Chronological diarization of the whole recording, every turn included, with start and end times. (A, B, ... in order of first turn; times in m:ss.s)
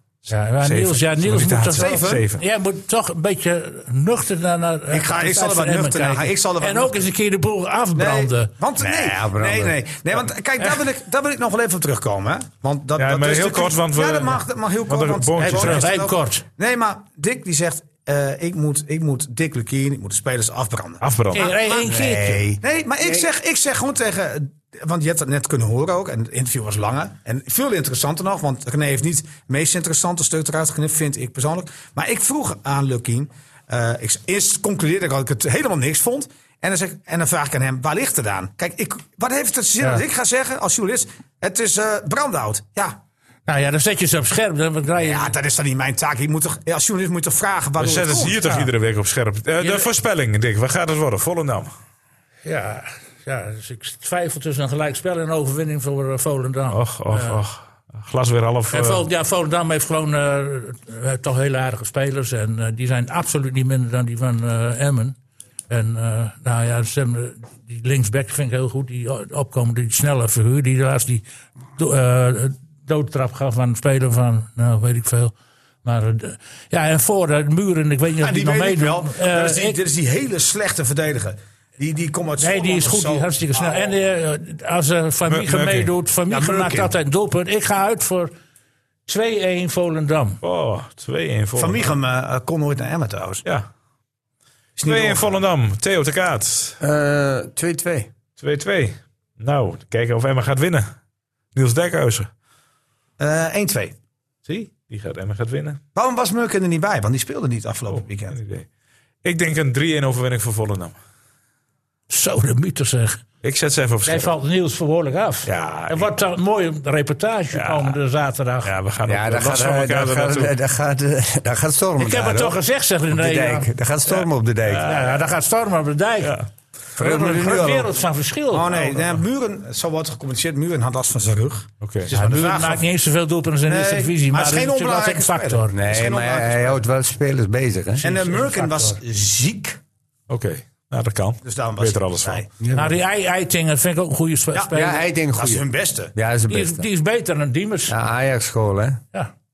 0:00.3-0:08.5 A
0:00.6-0:02.4 B
0:01.7-0:02.3 C
0:04.9-0:07.0 C
0:08.0-0:43.0 C
0:08.8-0:09.8 D
0:13.0-0:15.9 B
0:15.4-0:16.4 A
0:21.0-0:21.6 B
0:21.3-0:22.5 A
0:23.0-0:23.3 D
0:43.5-0:45.3 A
0:45.0-0:48.4 C
0:47.8-0:51.7 B
0:48.4-0:48.7 A
0:49.6-0:49.9 A
0:52.4-0:57.4 A
0:56.7-0:59.0 B
0:58.7-1:05.2 A
1:05.7-1:11.2 A
1:11.8-1:15.3 A
1:15.8-1:19.8 A
1:18.2-1:24.0 C
1:22.4-1:28.3 A
1:25.3-1:25.9 B
1:26.3-1:26.9 C
1:29.1-1:30.4 A
1:30.4-1:31.9 B
1:31.6-1:33.4 C
1:34.8-1:35.4 C
1:34.8-1:36.8 B
1:36.8-1:38.1 D
1:38.4-1:40.9 B
1:41.5-1:42.3 B
1:43.2-1:44.0 C
1:44.4-1:45.8 B
1:45.9-1:48.4 C
1:47.9-1:48.7 B
1:49.2-1:51.0 B
1:52.1-1:53.2 A
1:53.4-1:54.3 B
1:54.0-1:58.7 A
1:55.4-1:56.2 B
1:57.5-1:58.0 B
1:58.6-2:00.5 B
1:59.0-2:02.6 D
2:02.0-2:03.7 A
2:03.1-2:04.9 D
2:04.7-2:05.2 B
2:04.8-2:06.4 A
2:07.0-2:07.9 D
2:07.0-2:09.2 A
2:08.5-2:12.8 C
2:11.8-2:12.1 B
2:12.1-2:15.8 A
2:13.7-2:16.8 C
2:15.7-2:18.1 D
2:18.0-2:19.0 A
2:18.0-2:19.8 C
2:20.3-2:22.4 B
2:21.4-2:22.5 C
2:22.6-2:23.0 D
2:22.7-2:25.0 A
2:24.5-2:26.1 C
2:24.7-2:26.9 D
2:26.5-2:28.0 A
2:27.9-2:29.0 D